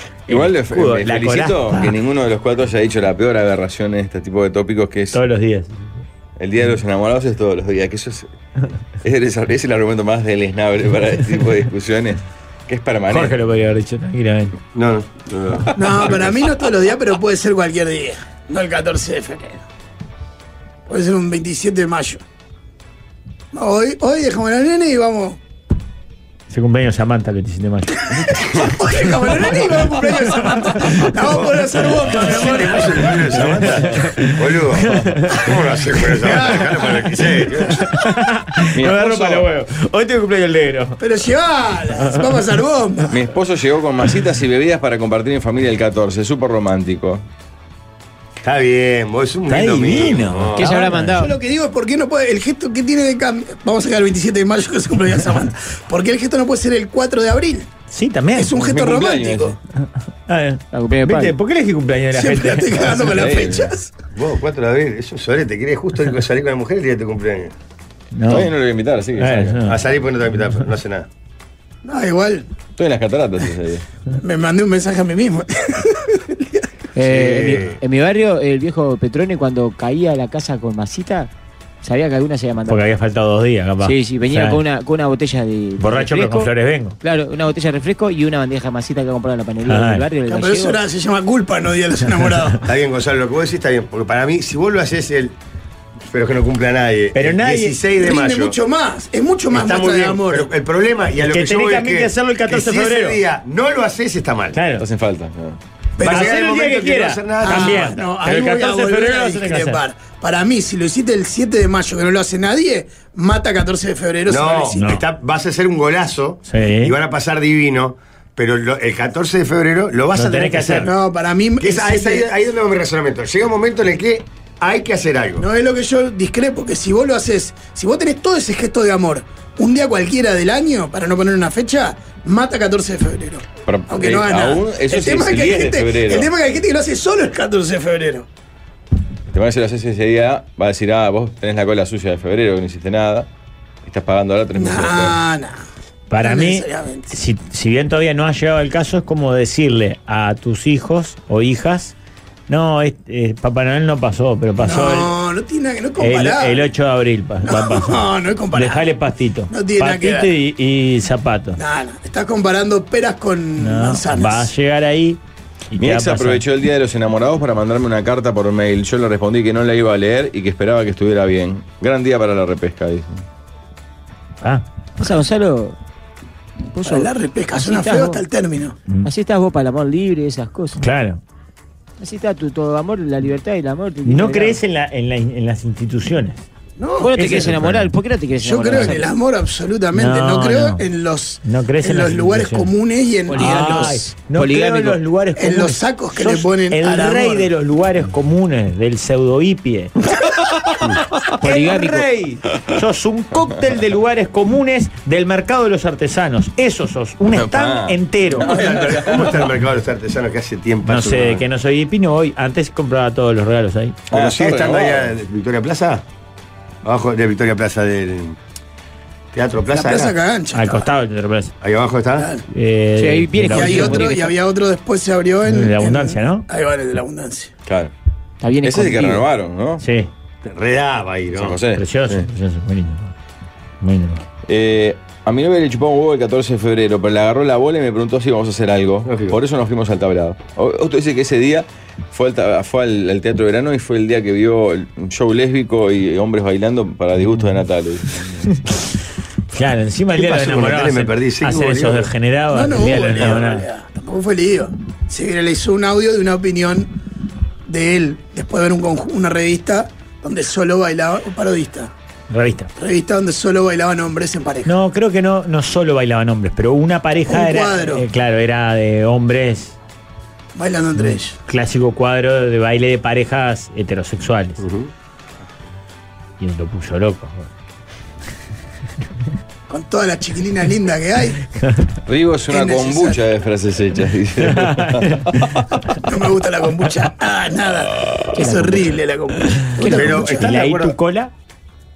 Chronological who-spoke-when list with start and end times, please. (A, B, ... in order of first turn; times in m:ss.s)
0:00.3-0:01.9 A
0:00.3-0:05.2 B
0:05.1-0:05.8 A
0:06.4-0:08.3 B
0:09.0-0:13.4 B
0:13.1-0:14.5 A
0:14.7-0:15.7 C
0:15.7-0:19.6 D
0:20.9-0:22.2 D
0:23.5-0:25.4 D
0:26.5-0:28.4 A
0:28.4-0:33.2 D
0:30.8-0:31.1 A
0:32.1-0:37.8 C
0:32.1-0:35.5 A
0:36.2-0:37.0 D
0:37.9-0:41.0 A
0:38.7-0:39.4 B
0:41.0-0:43.2 D
0:43.1-0:47.2 B
0:48.4-0:50.6 C
0:49.5-0:51.2 A
0:50.5-0:51.3 E
0:51.1-0:57.7 D
0:57.9-0:58.5 A
0:58.3-0:59.6 D
0:58.5-0:59.6 B
1:00.3-1:03.1 A
1:00.7-1:01.3 E
1:02.1-1:03.9 D
1:03.0-1:03.7 B
1:04.1-1:07.5 C
1:08.1-1:08.5 A
1:08.3-1:09.6 B
1:09.2-1:09.8 A
1:09.6-1:11.1 C
1:11.8-1:12.4 D
1:12.8-1:13.8 B
1:14.1-1:16.4 D
1:16.9-1:21.3 E
1:17.1-1:17.7 B
1:21.8-1:22.8 E
1:22.7-1:24.6 A
1:23.8-1:26.5 E
1:25.8-1:27.0 A
1:27.0-1:30.8 E
1:29.6-1:30.0 A
1:30.3-1:32.6 D
1:32.6-1:35.3 C
1:36.1-1:38.6 C
1:37.1-1:37.8 A
1:38.0-1:40.5 D
1:39.5-1:44.6 C
1:41.2-1:43.2 A
1:44.5-1:44.8 A
1:44.8-1:45.6 B
1:46.0-1:46.4 D
1:46.0-1:48.0 C
1:46.0-1:49.8 A
1:47.4-1:54.9 D
1:54.3-2:00.9 C
1:54.7-1:55.0 A
1:56.4-1:56.9 A
2:00.1-2:00.9 A
2:00.8-2:02.3 D
2:01.6-2:05.4 C
2:05.4-2:18.3 D
2:13.6-2:16.3 B
2:19.3-2:23.3 B
2:23.8-2:25.2 B
2:24.6-2:25.6 D
2:26.1-2:31.9 A
2:26.2-2:27.1 D
2:32.5-2:35.1 A
2:34.6-2:36.6 D
2:36.0-2:41.6 A
2:37.4-2:38.9 D
2:39.5-2:40.3 D
2:41.6-2:44.5 D
2:43.6-2:45.2 A
2:45.7-2:46.4 A
2:45.8-2:53.2 B
2:55.0-2:55.8 E
2:56.7-2:58.2 E
2:56.8-2:58.8 D
2:59.0-3:00.8 E
3:00.8-3:01.2 A
3:02.0-3:04.6 E
3:04.0-3:06.4 A
3:06.8-3:07.4 D
3:07.0-3:09.1 E
3:07.1-3:07.9 A
3:08.4-3:14.1 D
3:09.9-3:10.8 A
3:11.4-3:12.7 A
3:13.3-3:15.0 E
3:13.4-3:19.9 A
3:15.4-3:17.5 D
3:21.4-3:28.6 A
3:21.4-3:22.0 E
3:27.3-3:29.4 B
3:28.3-3:31.4 C
3:30.8-3:34.0 A
3:34.1-3:35.1 B
3:34.1-3:36.0 C
3:36.8-3:38.4 C
3:39.3-3:40.1 C
3:39.7-3:40.9 D
3:40.5-3:41.5 A
3:41.6-3:42.3 C
3:42.2-3:42.4 D
3:42.5-3:44.1 A
3:43.0-3:44.3 E
3:43.5-3:47.5 D
3:45.5-3:46.4 A
3:47.6-3:47.9 B
3:48.4-3:49.2 E
3:48.6-3:49.8 B
3:49.8-3:50.1 A
3:50.4-3:51.6 C
3:51.3-3:52.2 B
3:51.7-3:53.1 A
3:53.8-3:54.2 A
3:54.4-4:08.2 B
3:59.0-3:59.4 C
4:09.5-4:13.6 A
4:10.1-4:12.1 C
4:12.5-4:16.9 D
4:17.7-4:21.9 D
4:22.3-4:22.7 A
4:22.8-4:24.7 D
4:24.6-4:29.8 A
4:27.3-4:28.0 D
4:30.6-4:31.3 D
4:31.0-4:34.6 A
4:34.6-4:34.9 C
4:36.4-4:37.5 A
4:39.7-4:41.4 D
4:42.0-4:45.7 B
4:42.5-4:43.2 D
4:44.4-4:45.4 A
4:46.0-4:50.5 D
4:48.3-4:49.0 E
4:49.8-4:50.2 E
4:49.9-4:51.0 C
4:50.2-4:51.3 A